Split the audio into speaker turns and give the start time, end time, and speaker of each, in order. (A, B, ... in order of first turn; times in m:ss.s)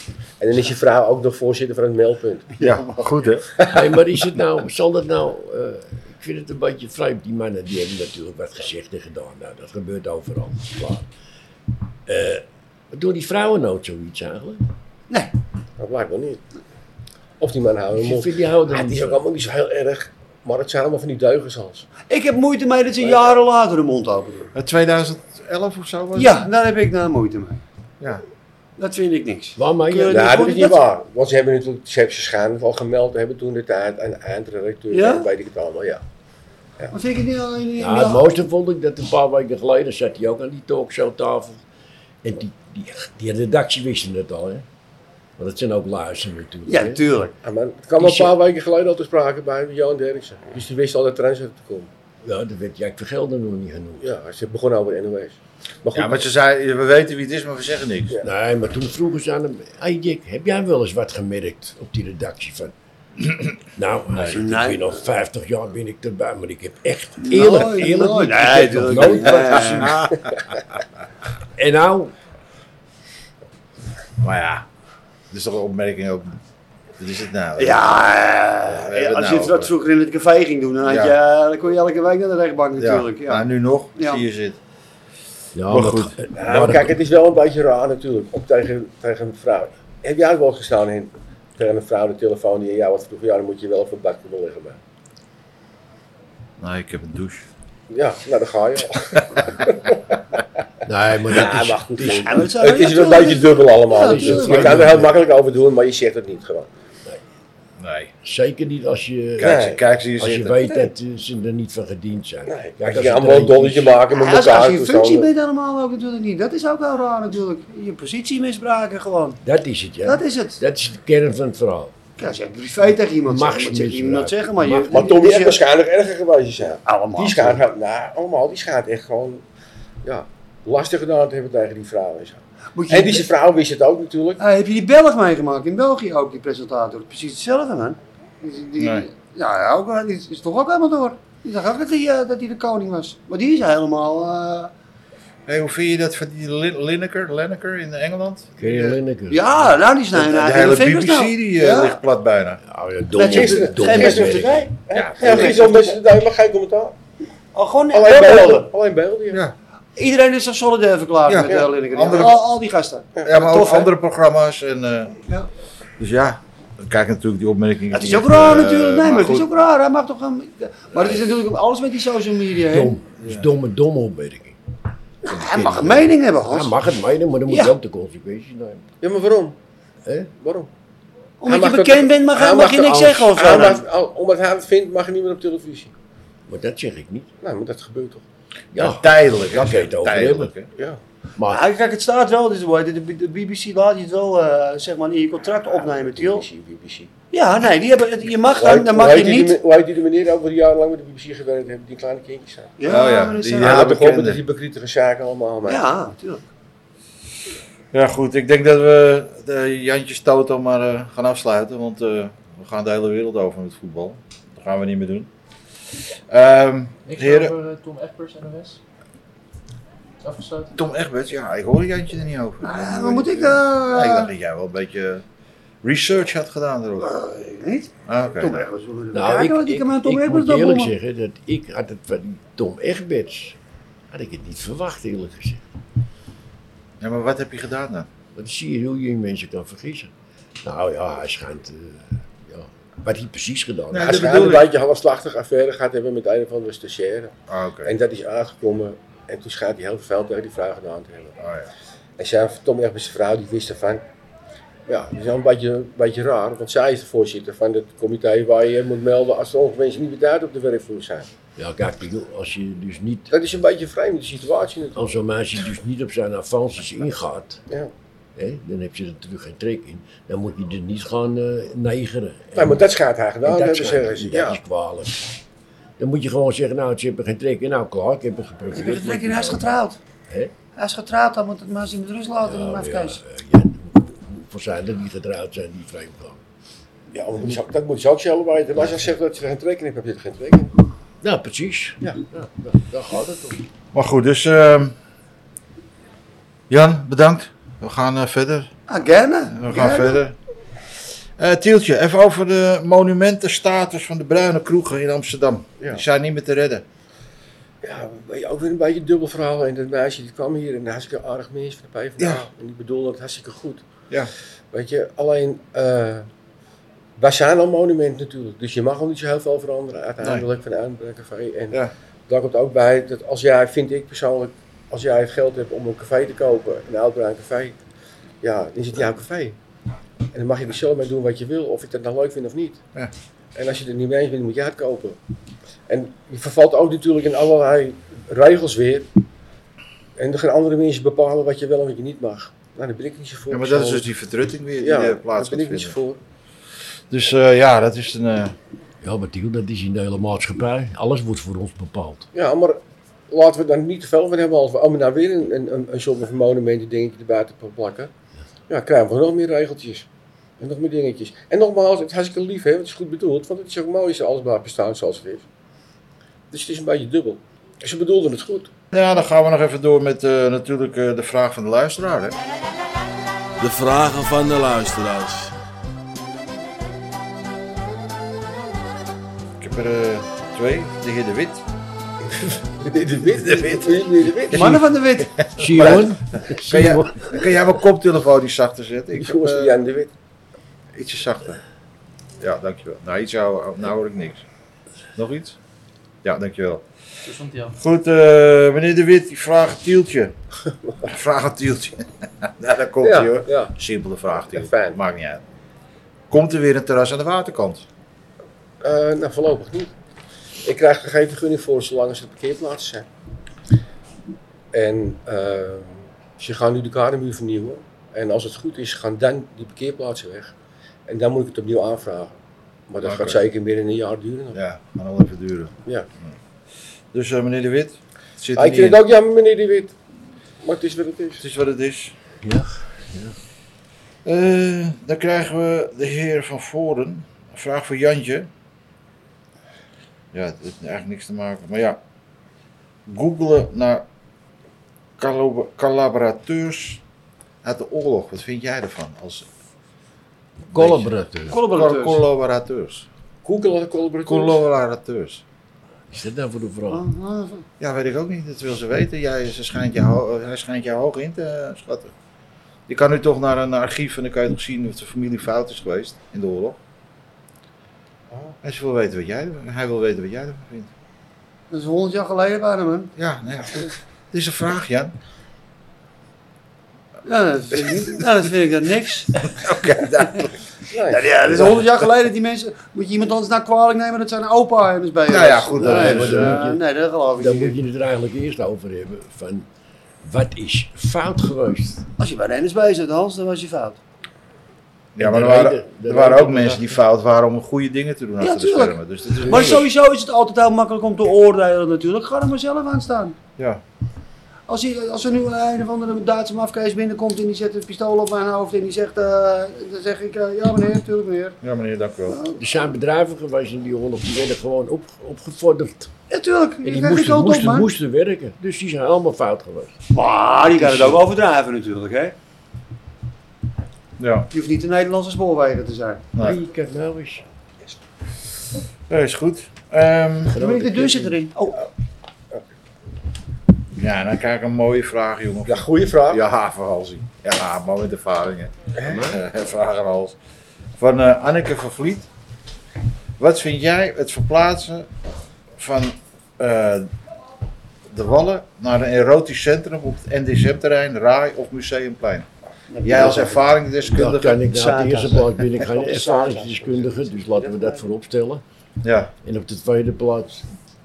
0:00.4-0:02.5 A
0:02.6-0:03.5 B
0:03.6-0:03.9 A
0:03.6-0:11.1 C
0:12.1-0:14.7 C
0:15.8-0:16.4 A
0:17.4-0:21.9 A
0:18.0-0:19.2 C
0:22.1-0:24.5 D
0:23.0-0:23.4 A
0:24.5-0:26.5 B
0:26.2-0:27.6 D
0:28.8-0:30.8 D
0:29.6-0:30.4 C
0:30.1-0:36.0 A
0:34.9-0:35.3 D
0:36.9-0:38.3 D
0:37.8-0:41.6 C
0:42.2-0:44.6 C
0:45.4-0:47.0 C
0:46.7-0:47.4 D
0:47.4-0:51.9 A
0:48.0-0:48.4 C
0:52.2-0:54.1 C
0:54.0-0:56.3 A
0:55.9-0:58.2 B
0:58.2-1:02.7 C
1:03.8-1:10.1 C
1:04.3-1:04.9 D
1:07.2-1:10.0 D
1:09.8-1:10.3 B
1:11.6-1:12.1 C
1:14.2-1:14.7 B
1:15.3-1:16.4 B
1:17.0-1:18.0 B
1:17.6-1:24.2 D
1:18.6-1:19.7 B
1:20.8-1:21.2 B
1:22.8-1:24.6 B
1:25.6-1:27.0 C
1:25.7-1:26.2 B
1:26.4-1:34.8 A
1:36.6-1:37.5 B
1:37.9-1:40.0 A
1:40.8-1:42.5 C
1:41.3-1:46.7 A
1:42.0-1:44.8 D
1:44.0-1:45.2 C
1:47.8-1:48.1 B
1:48.2-1:49.7 C
1:49.4-1:50.7 B
1:49.4-1:49.8 A
1:50.2-1:54.0 C
1:52.5-1:55.3 A
1:54.1-1:59.4 D
1:59.4-2:01.9 C
2:00.0-2:00.6 D
2:02.2-2:05.6 D
2:03.2-2:05.3 C
2:04.9-2:09.4 A
2:06.9-2:07.6 D
2:10.0-2:14.4 A
2:12.8-2:13.3 D
2:14.4-2:24.7 D
2:18.8-2:19.1 B
2:25.5-2:29.0 B
2:28.6-2:29.5 C
2:29.3-2:32.0 D
2:30.1-2:32.6 B
2:32.6-2:34.7 C
2:33.1-2:35.9 D
2:33.2-2:37.0 A
2:34.9-2:35.8 B
2:37.5-2:38.7 D
2:37.9-2:39.4 A
2:40.0-2:43.9 D
2:41.3-2:42.4 B
2:43.2-2:45.2 B
2:46.0-2:49.5 B
2:47.9-2:53.0 D
2:52.7-2:54.6 C
2:53.2-2:53.5 B
2:55.3-2:56.8 D
2:55.3-2:58.9 C
2:59.0-2:59.6 A
3:00.0-3:00.3 C
3:00.4-3:00.7 A
3:01.4-3:03.8 D
3:01.5-3:05.9 A
3:06.5-3:07.3 C
3:07.4-3:08.2 A
3:08.7-3:10.5 C
3:08.8-3:10.7 B
3:11.4-3:11.6 C
3:11.5-3:16.4 D
3:15.8-3:17.1 A
3:17.3-3:19.6 D
3:18.5-3:22.8 A
3:22.8-3:23.8 D
3:22.9-3:24.4 B
3:23.6-3:25.9 A
3:25.7-3:26.4 D
3:27.9-3:35.3 B
3:36.3-3:37.6 B
3:37.1-3:38.8 E
3:40.2-3:40.8 E
3:40.8-3:45.2 B
3:42.6-3:44.3 D
3:45.8-3:47.1 B
3:47.0-3:50.9 D
3:48.1-3:48.6 B
3:49.1-3:53.6 C
3:54.1-3:55.6 C
3:57.0-3:58.1 B
3:58.4-4:04.3 C
4:03.9-4:04.7 B
4:04.0-4:11.4 A
4:07.5-4:07.9 B
4:11.4-4:11.7 B
4:12.2-4:14.0 A
4:14.9-4:21.3 A
4:21.6-4:23.3 C
4:23.3-4:25.0 A
4:25.0-4:27.6 C
4:28.4-4:32.8 C
4:32.6-4:34.6 A
4:33.4-4:35.4 C
4:36.0-4:39.8 C
4:38.7-4:40.0 D
4:40.3-4:40.5 C
4:40.8-4:43.2 D
4:42.4-4:46.4 C
4:47.1-4:50.7 A
4:51.2-4:53.6 C
4:53.9-4:55.0 B
4:56.7-4:58.7 B
4:58.9-5:00.2 D
4:59.5-5:00.4 B
5:01.4-5:06.8 B
5:07.8-5:13.8 A
5:12.2-5:12.5 B
5:14.7-5:16.3 A
5:17.2-5:27.8 A
5:28.4-5:29.6 A
5:30.3-5:32.8 A
5:33.6-5:35.2 A
5:35.9-5:39.1 A
5:40.2-5:44.1 A
5:43.5-5:46.0 B
5:44.8-5:46.2 A
5:47.1-5:48.6 B
5:49.0-5:52.3 C
5:52.3-5:52.8 A
5:53.3-5:58.1 A
5:58.7-6:00.1 A
6:00.6-6:05.4 A
6:06.5-6:08.7 A
6:08.9-6:12.4 B
6:13.6-6:15.5 F
6:19.6-6:21.6 B
6:22.4-6:24.8 A
6:23.4-6:24.8 B
6:24.5-6:25.4 D
6:25.4-6:29.7 B
6:25.6-6:27.4 C
6:29.2-6:30.1 A
6:31.0-6:31.6 B
6:32.4-6:34.4 B
6:35.2-6:35.6 B
6:36.2-6:36.8 B
6:37.3-6:37.8 E
6:37.7-6:40.3 B
6:41.0-6:45.4 B
6:43.0-6:43.8 A
6:44.4-6:45.0 A
6:46.3-6:47.9 B
6:48.8-6:49.9 A
6:50.6-6:53.1 A
6:54.7-7:00.5 A
7:01.1-7:02.4 A
7:02.9-7:04.6 A
7:03.0-7:03.4 B
7:04.5-7:06.3 B
7:07.1-7:09.0 B
7:08.6-7:10.0 A
7:10.6-7:11.4 A
7:11.4-7:12.2 B
7:12.4-7:13.4 C
7:14.2-7:18.5 B
7:20.3-7:22.0 B
7:23.1-7:24.0 B
7:25.2-7:27.0 B
7:27.6-7:29.5 B
7:30.7-7:31.6 C
7:30.7-7:33.1 B
7:31.5-7:32.2 D
7:33.4-7:34.6 A
7:34.3-7:35.4 B
7:36.1-7:37.0 C
7:36.9-7:37.6 D
7:37.8-7:42.1 B
7:42.9-7:46.8 B
7:48.3-7:48.6 A
7:48.6-7:50.9 B
7:51.7-7:53.1 D
7:53.2-7:55.1 B
7:57.2-8:00.4 D
7:59.4-8:00.5 B
8:00.9-8:01.9 A
8:01.1-8:07.8 D
8:05.3-8:06.6 B
8:05.8-8:06.8 C
8:07.4-8:09.7 C
8:10.2-8:12.1 C
8:12.2-8:14.0 D
8:15.2-8:19.9 B
8:15.2-8:16.9 C
8:18.4-8:23.4 D
8:19.4-8:19.7 C
8:24.7-8:31.6 D
8:31.6-8:32.4 B
8:32.3-8:32.6 D
8:32.6-8:36.1 C
8:36.3-8:37.9 D
8:36.8-8:40.0 C
8:40.1-8:42.4 D
8:40.7-8:41.2 C
8:44.2-8:44.5 B
8:44.5-8:46.2 D
8:46.4-8:47.4 C
8:49.1-8:50.6 B
8:50.5-8:51.4 C
8:50.6-8:51.8 D
8:54.0-9:00.4 B
8:55.7-8:56.4 A
8:59.0-8:59.4 C
9:01.0-9:02.3 B
9:03.4-9:05.1 B
9:05.8-9:07.1 B
9:08.1-9:12.5 B
9:12.9-9:13.7 D
9:13.0-9:14.8 B
9:14.1-9:18.6 C
9:14.6-9:16.7 D
9:15.9-9:18.0 A
9:19.0-9:19.3 B
9:19.4-9:20.7 C